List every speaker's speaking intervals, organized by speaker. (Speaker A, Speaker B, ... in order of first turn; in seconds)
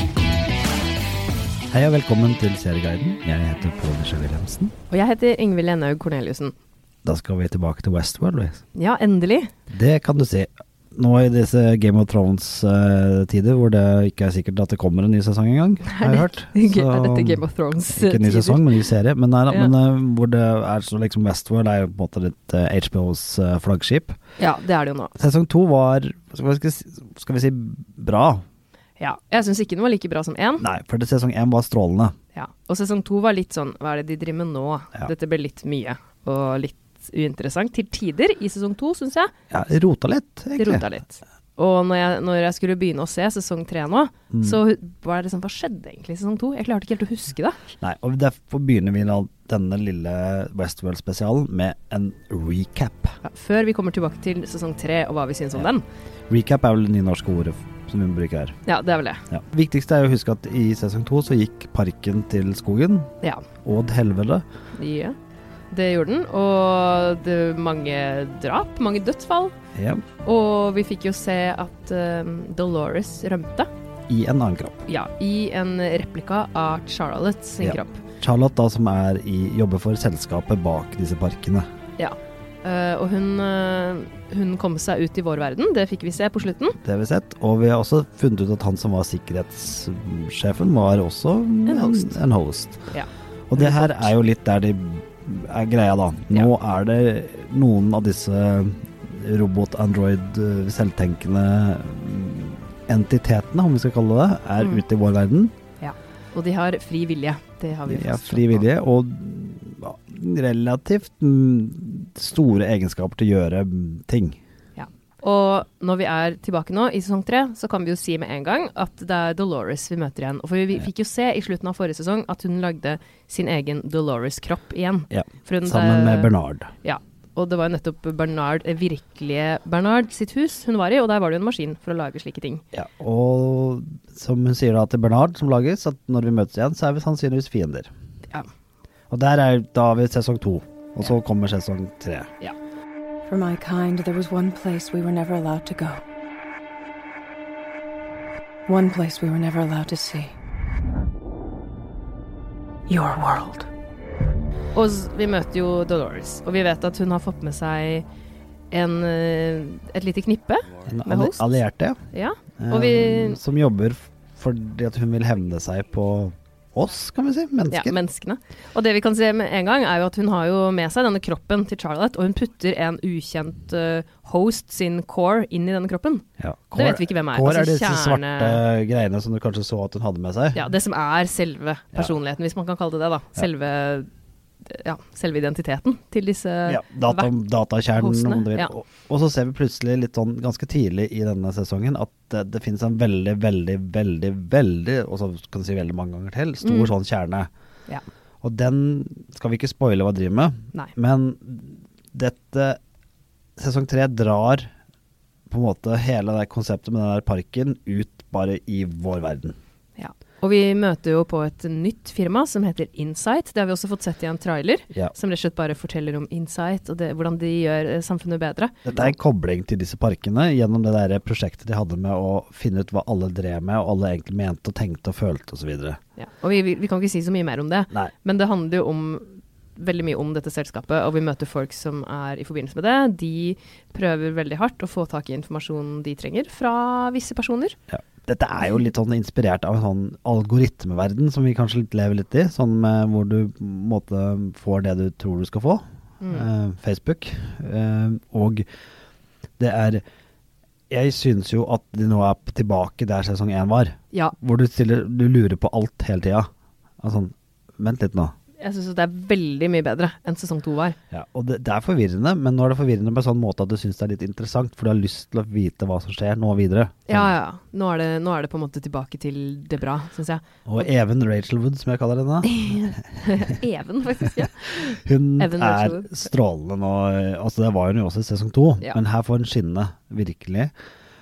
Speaker A: 1.7-4.7, 7.0-8.6, 9.7-24.2, 25.1-28.4, 30.6-32.1, 39.5-40.9, 44.3-44.6, 47.8-53.2, 56.3-58.6, 59.3-63.1, 63.6-64.4, 69.7-70.0, 74.1-74.8, 77.6-81.7, 86.8-92.8, 93.5-105.5, 107.8-114.4, 125.1-126.7, 132.7-137.9, 139.1-142.3, 160.8-162.0, 162.6-167.9, 176.4-180.7, 186.7-197.5, 198.4-202.8, 203.6-204.7, 205.5-209.6, 218.8-226.0, 237.9-248.6, 249.6-250.0, 250.9-256.5, 257.0-258.3, 261.1-267.3, 270.6-273.5, 274.5-280.7
Speaker B: 4.9-6.5, 8.7-9.5, 15.9-18.8, 19.5-19.7, 24.4-25.1, 29.0-30.6, 32.3-39.3, 40.5-47.6, 53.2-55.8, 58.6-59.2, 64.8-65.2, 65.7-69.5, 70.2-73.7, 74.9-78.0, 82.0-86.8, 91.7-92.1, 92.9-94.1, 105.8-108.7, 115.2-132.6, 154.7-158.0, 158.7-161.4, 162.1-163.4, 167.7-178.6, 180.5-184.1, 184.7-187.4, 188.0-188.7, 196.6-196.9, 210.0-218.8, 226.2-237.8, 258.6-261.0, 267.1-270.8, 272.5-276.2
Speaker C: 143.2-146.0, 148.7-150.3, 152.9-153.7